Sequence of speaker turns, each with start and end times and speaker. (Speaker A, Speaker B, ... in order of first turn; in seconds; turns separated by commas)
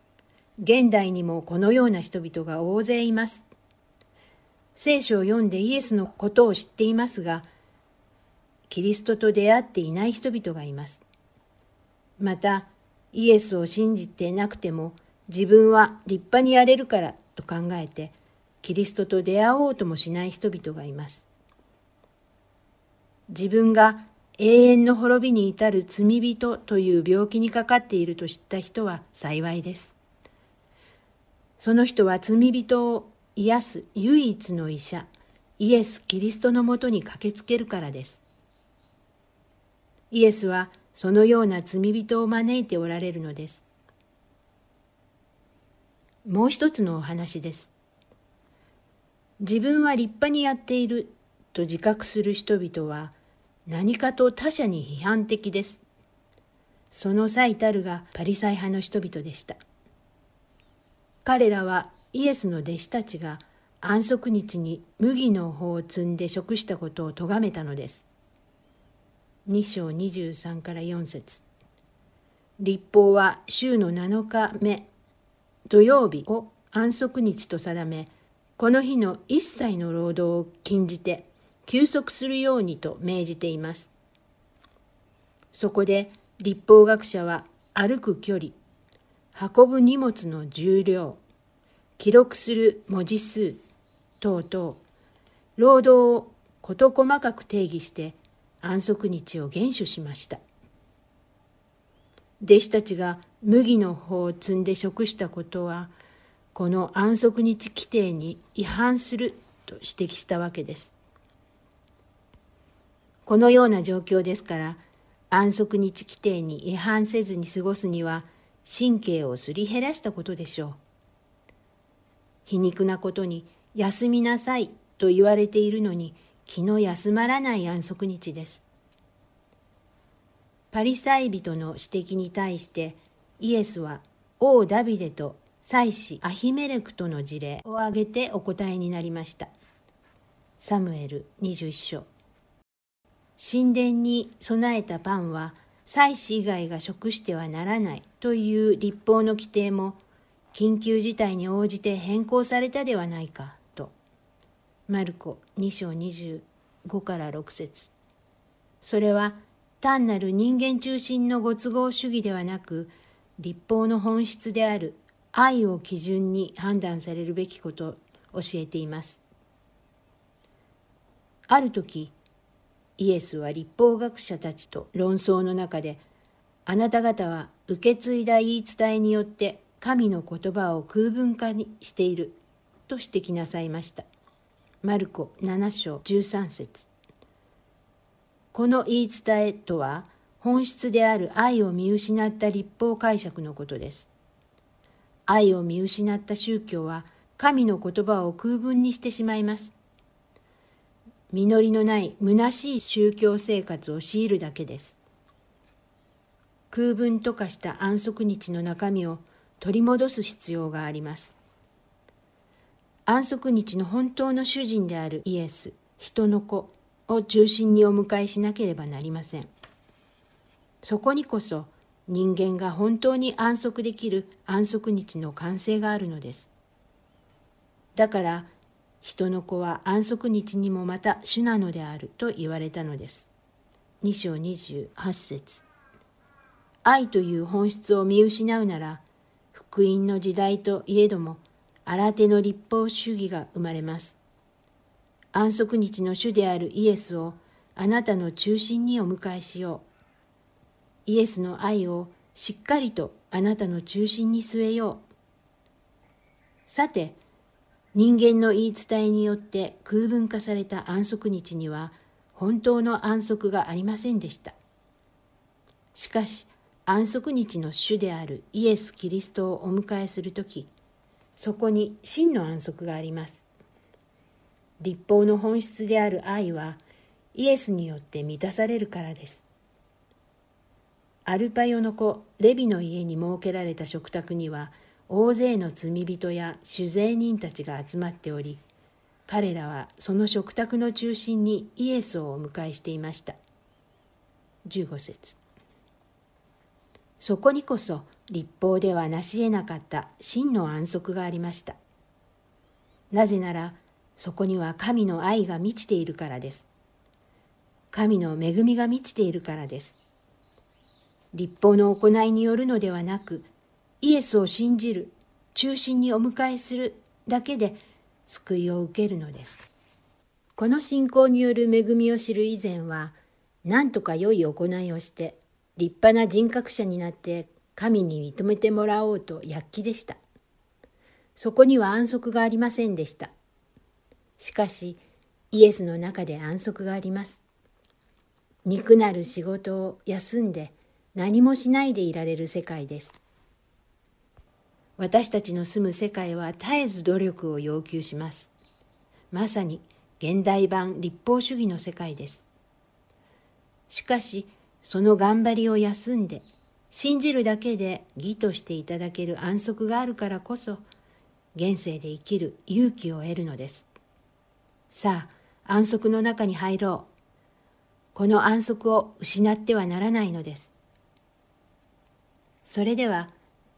Speaker A: 0.6-3.4, Speaker A: 4.7-7.5, Speaker A: 8.7-11.0, Speaker A: 12.2-21.2, Speaker A: 23.3-29.9, Speaker A: 31.6-38.2, Speaker A: 40.1-43.6, Speaker A: 46.2-47.7, Speaker A: 49.4-53.1, Speaker A: 53.7-55.8, Speaker A: 56.9-59.6, Speaker A: 61.2-68.0, Speaker A: 69.5-71.4, Speaker A: 72.6-74.9, Speaker A: 75.7-83.9, Speaker A: 85.5-88.5, Speaker A: 89.3-91.2, Speaker A: 92.0-93.6, Speaker A: 94.2-94.8, Speaker A: 95.6-100.4, Speaker A: 102.4-105.9, Speaker A: 106.5-110.9, Speaker A: 113.2-120.8, Speaker A: 122.5-128.6, Speaker A: 130.7-139.5, Speaker A: 140.6-142.1, Speaker A: 143.4-150.0, Speaker A: 150.5-153.9, Speaker A: 154.9-157.9, Speaker A: 158.8-169.2, Speaker A: 171.5-172.1, Speaker A: 173.0-176.0, Speaker A: 176.7-184.0, Speaker A: 184.8-186.9, Speaker A: 188.5-194.1, Speaker A: 195.3-199.7, Speaker A: 201.3-205.0, Speaker A: 206.7-211.3, Speaker A: 213.1-219.5, Speaker A: 220.8-226.5, Speaker A: 227.9-228.5, Speaker A: 229.0-233.3, Speaker A: 234.0-235.6, Speaker A: 236.8-239.0, Speaker A: 239.5-244.2, Speaker A: 245.3-249.8, Speaker A: 251.1-255.0, Speaker A: 256.7-257.2, Speaker A: 257.9-264.5, Speaker A: 265.9-270.7, Speaker A: 271.4-273.4, Speaker A: 274.8-276.8, Speaker A: 277.3-279.4, Speaker A: 281.2-288.6, Speaker A: 289.3-293.4, Speaker A: 294.6-295.4, Speaker A: 297.2-301.8, Speaker A: 303.1-306.7, Speaker A: 307.9-310.0, Speaker A: 311.3-313.5, Speaker A: 314.0-319.6, Speaker A: 320.6-330.2, Speaker A: 331.4-333.3, Speaker A: 334.4-335.0, Speaker A: 335.5-337.4, Speaker A: 338.6-343.1, Speaker A: 345.0-348.5, Speaker A: 349.3-352.4, Speaker A: 353.9-360.8, Speaker A: 361.5-363.9, Speaker A: 364.9-367.1, Speaker A: 368.1-370.7, Speaker A: 372.6-373.3